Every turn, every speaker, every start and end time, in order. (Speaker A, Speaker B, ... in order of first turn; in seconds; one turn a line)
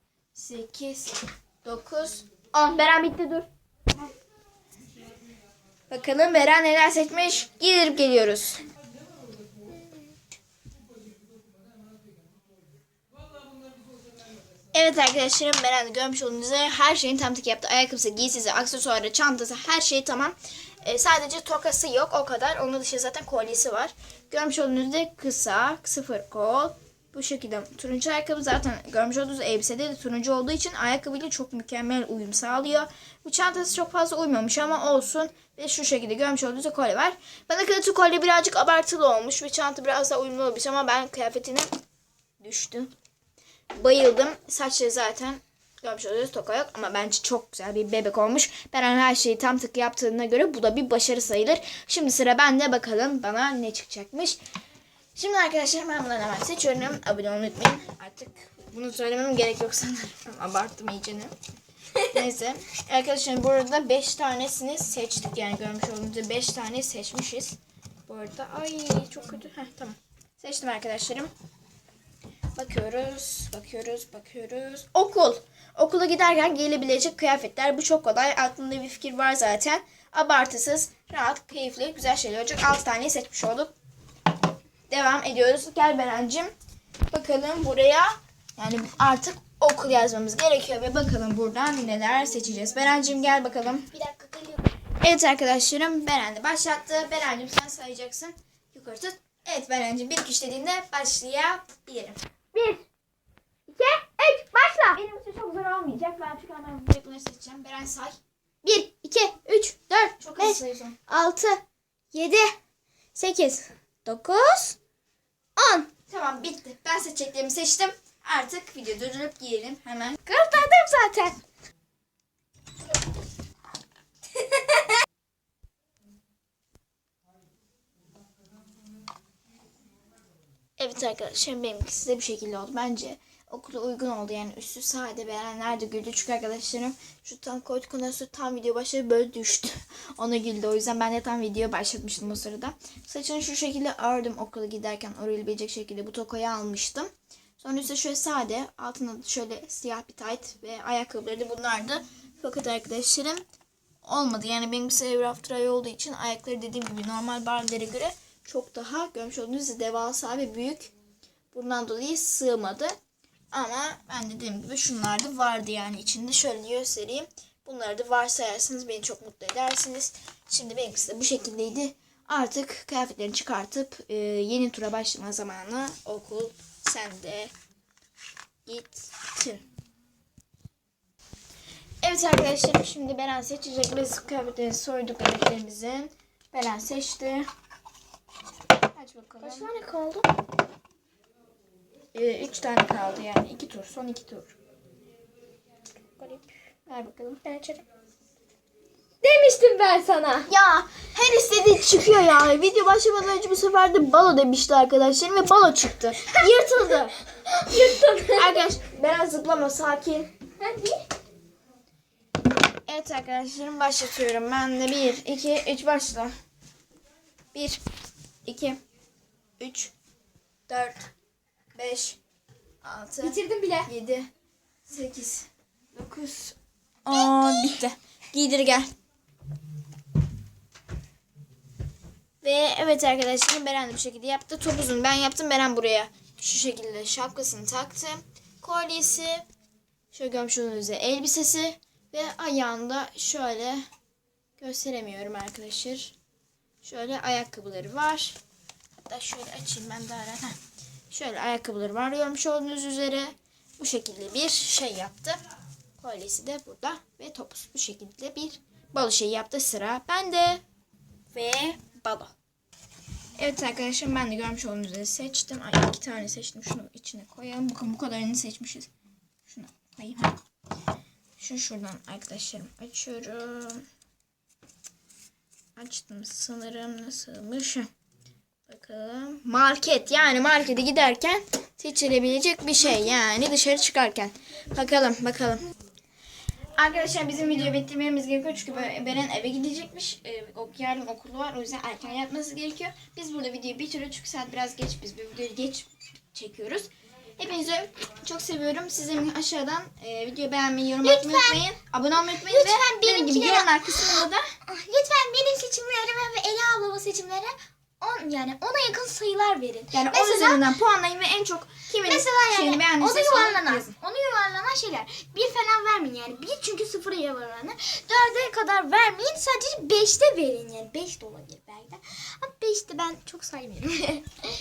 Speaker A: 0.3-3.5
Speaker A: 5.9-8.6
Speaker A: 14.7-41.7
Speaker A: 42.4-42.9
Speaker A: 43.8-54.4
Speaker A: 55.1-61.3
Speaker A: 62.1-71.3
Speaker A: 72.6-83.7
Speaker A: 84.9-86.5
Speaker A: 87.1-93.9
Speaker B: 93.9-94.7
Speaker A: 95.0-102.2
Speaker B: 102.5-102.8
Speaker B: 103.7-104.9
Speaker A: 104.7-108.2
Speaker B: 108.6-112.5
Speaker A: 110.2-111.0
Speaker B: 113.2-114.8
Speaker B: 115.6-115.9
Speaker A: 116.1-120.4
Speaker B: 120.3-121.4
Speaker A: 130.8-153.4
Speaker A: 154.0-160.9
Speaker A: 161.5-162.9
Speaker A: 163.5-177.5
Speaker A: 178.7-179.6
Speaker A: 182.0-187.5
Speaker A: 188.9-189.7
Speaker B: 189.4-190.3
Speaker A: 192.1-194.6
Speaker B: 196.2-196.5
Speaker A: 196.9-197.4
Speaker B: 197.4-197.8
Speaker B: 199.2-200.5
Speaker A: 200.5-207.1
Speaker B: 206.3-208.6
Speaker A: 207.8-210.3
Speaker B: 210.6-211.1
Speaker A: 212.9-216.3
Speaker A: 217.5-217.8
Speaker A: 218.4-218.8
Speaker A: 219.6-219.9
Speaker A: 220.7-221.1
Speaker A: 221.8-222.2
Speaker A: 222.8-223.4
Speaker B: 223.2-223.9
Speaker A: 223.9-224.3
Speaker A: 224.9-225.5
Speaker B: 225.9-226.6
Speaker A: 227.1-228.9
Speaker A: 232.4-239.4
Speaker A: 240.1-243.9
Speaker A: 244.6-246.2
Speaker A: 246.8-248.4
Speaker A: 249.0-250.6
Speaker A: 251.1-255.4
Speaker A: 256.0-260.6
Speaker A: 261.3-262.3
Speaker A: 263.4-268.9
Speaker A: 269.5-270.4
Speaker A: 271.4-273.9
Speaker A: 275.8-277.9
Speaker A: 278.7-285.6
Speaker A: 286.8-304.5
Speaker B: 301.0-301.6
Speaker B: 302.3-310.6
Speaker A: 309.9-313.9
Speaker B: 312.0-324.3